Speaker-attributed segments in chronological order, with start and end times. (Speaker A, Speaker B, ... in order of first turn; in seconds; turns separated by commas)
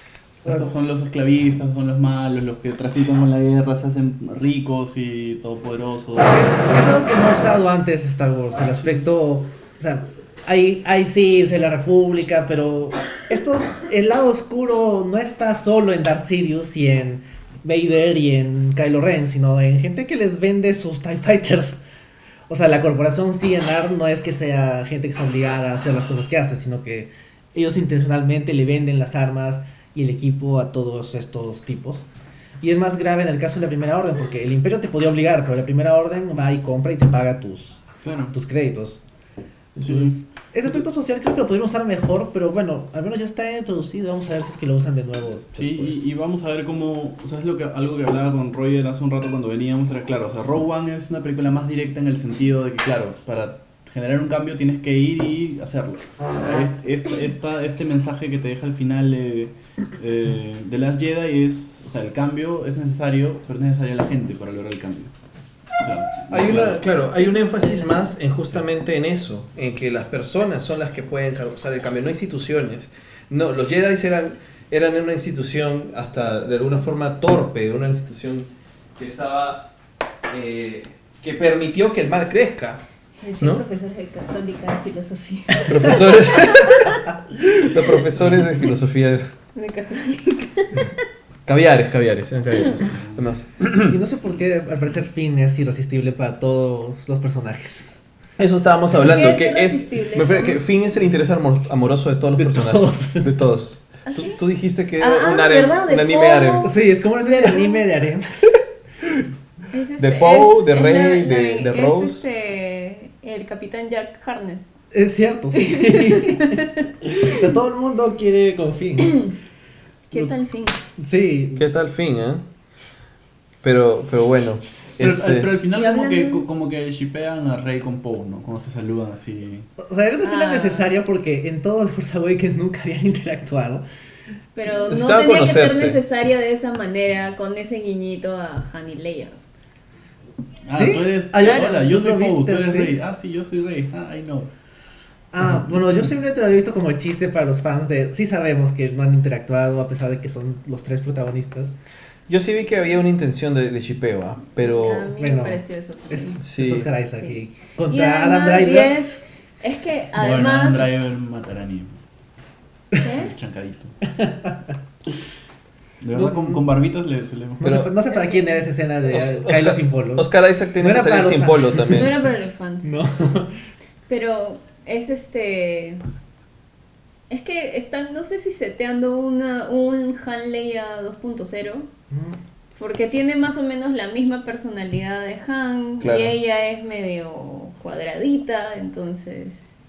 Speaker A: 0.4-0.7, Speaker B: 0.4-7.1, Speaker A: 6.2-21.8, Speaker A: 22.5-32.0, Speaker A: 32.6-39.0, Speaker B: 38.0-38.3, Speaker A: 39.8-46.0, Speaker B: 39.8-40.7, Speaker B: 45.5-65.1, Speaker B: 65.8-66.8, Speaker C: 66.3-79.7, Speaker D: 66.8-68.1, Speaker C: 80.3-82.8, Speaker D: 83.2-86.9, Speaker C: 85.7-89.3, Speaker D: 89.5-91.0, Speaker C: 91.5-94.0, Speaker B: 92.7-93.2, Speaker A: 93.8-97.9, Speaker C: 98.4-106.7, Speaker D: 99.0-100.6, Speaker A: 102.4-103.3, Speaker D: 104.0-104.4, Speaker D: 105.0-107.8, Speaker A: 106.6-108.4, Speaker D: 109.7-114.7, Speaker C: 110.0-112.2, Speaker A: 114.9-119.3, Speaker D: 115.6-116.8, Speaker D: 120.1-120.8, Speaker A: 121.0-121.6, Speaker C: 121.5-122.4, Speaker C: 123.6-125.5, Speaker B: 125.0-129.7, Speaker D: 125.7-126.5, Speaker A: 129.8-133.8, Speaker D: 130.2-130.9, Speaker D: 134.5-139.5, Speaker C: 134.9-136.0, Speaker B: 140.6-144.5, Speaker A: 140.7-142.9, Speaker D: 141.4-141.8, Speaker A: 145.3-151.7, Speaker C: 152.3-155.1, Speaker D: 154.6-156.4, Speaker A: 155.1-159.0, Speaker C: 156.4-156.9, Speaker D: 157.1-160.9, Speaker B: 160.2-162.0, Speaker D: 163.0-163.3, Speaker B: 163.2-163.9, Speaker A: 164.1-164.7, Speaker B: 166.0-167.7, Speaker A: 166.1-166.6, Speaker A: 167.6-170.3, Speaker C: 167.6-167.9, Speaker D: 168.1-168.7, Speaker C: 169.0-172.1, Speaker A: 170.8-172.1, Speaker D: 171.9-172.9, Speaker A: 172.8-173.5, Speaker D: 174.1-176.0, Speaker D: 177.3-181.9, Speaker A: 182.1-182.4, Speaker D: 182.8-189.6, Speaker C: 186.0-186.3